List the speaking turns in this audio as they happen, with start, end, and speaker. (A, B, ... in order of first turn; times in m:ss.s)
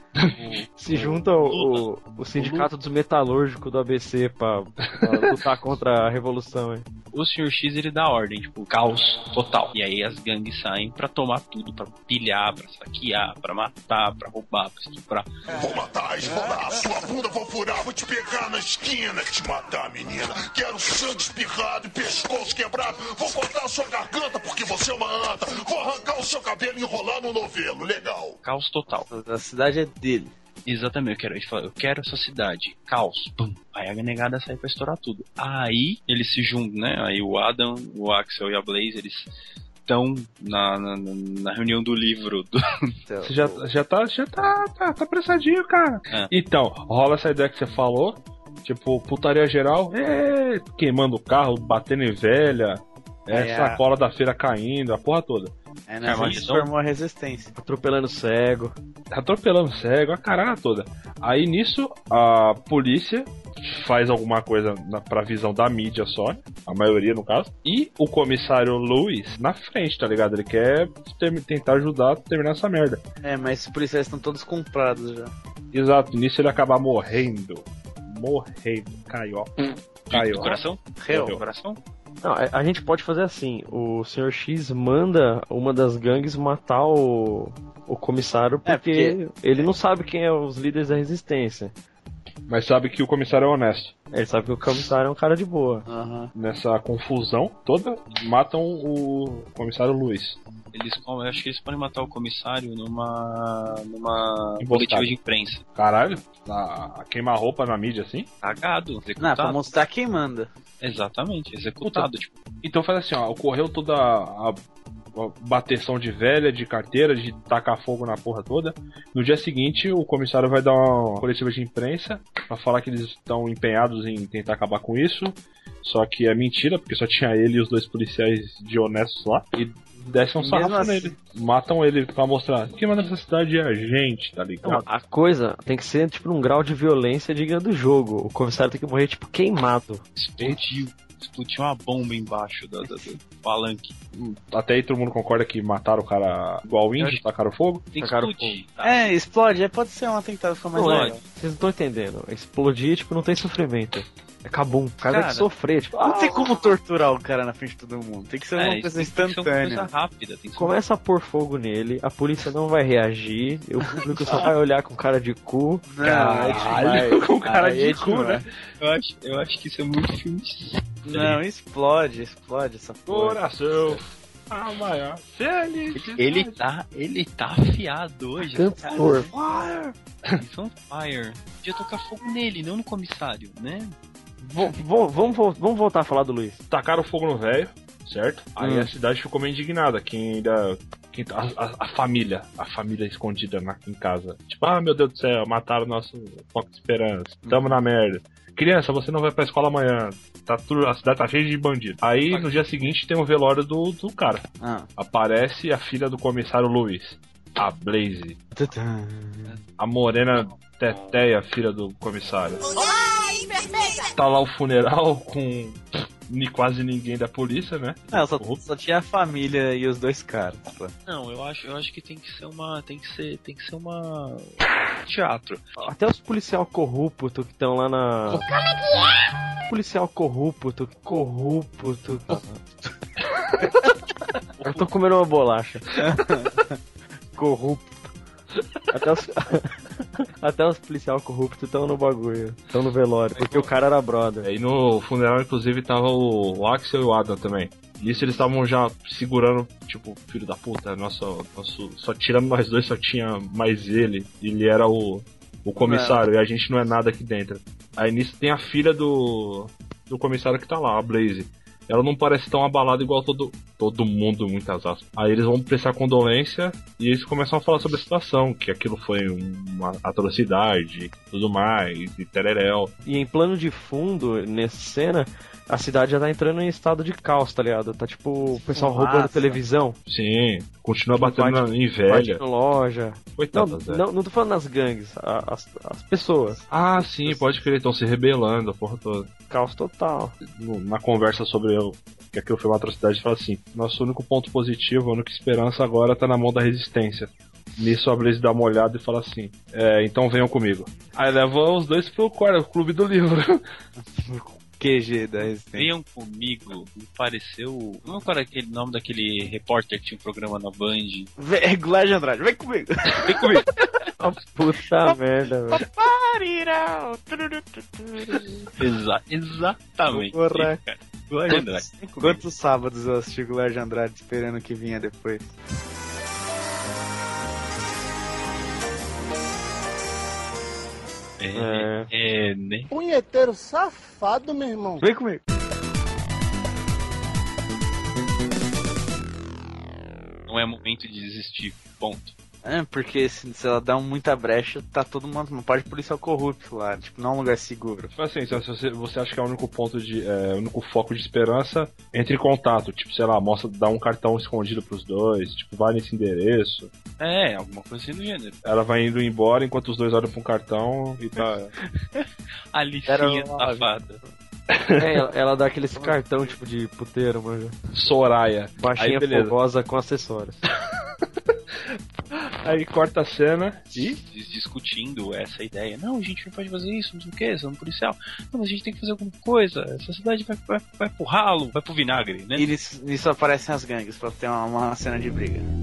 0:00.4-0:02.7 A
0:00.8-0:06.8 B
0:04.9-0:05.3 C
0:07.1-0:15.3 A
0:15.5-0:28.4 D
0:28.4-0:29.1 A
0:29.1-0:30.3 E
0:30.6-0:39.3 A
0:39.8-0:42.6 A
0:43.0-0:43.6 E
0:43.2-0:55.5 C
0:53.3-0:53.8 E
0:55.9-0:57.5 E
0:56.0-0:56.7 A
0:57.6-0:58.8 B
0:59.1-1:13.0 C
1:13.2-1:15.3 E
1:15.7-1:19.5 C
1:20.1-1:20.6 C
1:20.1-1:21.8 A
1:21.0-1:21.4 E
1:21.1-1:21.4 C
1:22.2-1:31.7 B
1:28.6-1:29.7 E
1:32.5-1:33.9 C
1:34.1-1:35.8 B
1:35.8-1:36.3 E
1:36.3-1:40.4 C
1:40.7-1:45.6 A
1:44.6-1:45.1 C
1:45.7-1:48.3 C
1:48.4-1:49.6 A
1:49.2-1:50.5 E
1:50.8-1:52.3 A
1:51.8-1:52.1 C
1:52.6-1:54.6 C
1:55.1-2:14.8 C
2:10.0-2:11.2 E
2:14.6-2:20.0 B
2:20.2-2:24.0 A
2:24.1-2:27.8 C
2:27.0-2:27.2 A
2:27.9-2:29.0 A
2:28.0-2:28.6 B
2:28.8-2:31.2 E
2:30.7-2:36.4 B
2:30.8-2:31.1 A
2:35.0-2:35.5 A
2:36.0-2:39.9 E
2:38.6-2:40.7 A
2:40.6-2:45.9 B
2:45.9-2:48.4 E
2:46.0-2:48.4 C
2:48.8-2:51.4 A
2:51.0-2:54.0 E
2:53.1-2:56.6 C
2:55.9-2:59.3 A
2:58.4-2:59.3 B
2:59.3-2:59.9 E
3:00.4-3:04.0 A
3:04.4-3:06.6 B
3:06.7-3:24.4 C
3:08.6-3:08.9 E
3:17.4-3:17.7 E
3:22.3-3:22.6 A
3:24.6-3:24.9 E
3:25.0-3:28.4 C
3:28.5-3:29.6 E
3:29.8-3:32.6 C
3:30.6-3:31.2 A
3:34.1-3:38.6 C
3:38.1-3:40.9 E
3:41.0-3:45.8 A
3:45.8-3:48.5 B
3:49.7-3:52.6 B
3:54.6-3:55.9 B
3:56.0-3:56.7 E
3:57.4-3:57.9 B
3:58.9-3:59.8 B
4:00.4-4:04.5 B
4:03.4-4:03.7 A
4:04.4-4:32.9 C
4:08.0-4:08.4 A
4:15.8-4:16.2 E
4:33.0-4:40.0 B
4:38.5-4:39.6 E
4:40.0-4:42.4 C
4:41.2-4:46.6 B
4:43.4-4:44.0 C
4:46.6-4:47.5 E
4:46.7-4:49.3 C
4:49.5-4:50.4 B
4:50.4-5:03.6 C
5:04.0-5:05.9 E
5:05.7-5:11.3 A
5:11.4-5:13.6 E
5:13.2-5:13.6 C
5:13.2-5:13.6 A
5:14.2-5:15.8 B
5:15.7-5:18.7 E
5:18.8-5:22.4 A
5:20.1-5:20.8 E
5:21.5-5:25.5 E
5:31.4-5:32.9 A
5:31.5-5:32.1 B
5:32.9-5:35.0 F
5:35.0-5:35.4 B
5:40.5-5:42.3 A
5:42.6-5:48.6 E
5:48.1-5:56.9 C
5:57.2-5:58.6 A
5:58.6-6:01.7 C
6:02.7-6:04.2 A
6:03.1-6:03.9 E
6:04.7-6:05.2 C
6:05.0-6:07.7 B
6:06.0-6:06.5 E
6:07.9-6:09.6 C
6:08.8-6:10.6 B
6:12.3-6:14.2 C
6:14.3-6:22.7 A
6:22.6-6:25.7 E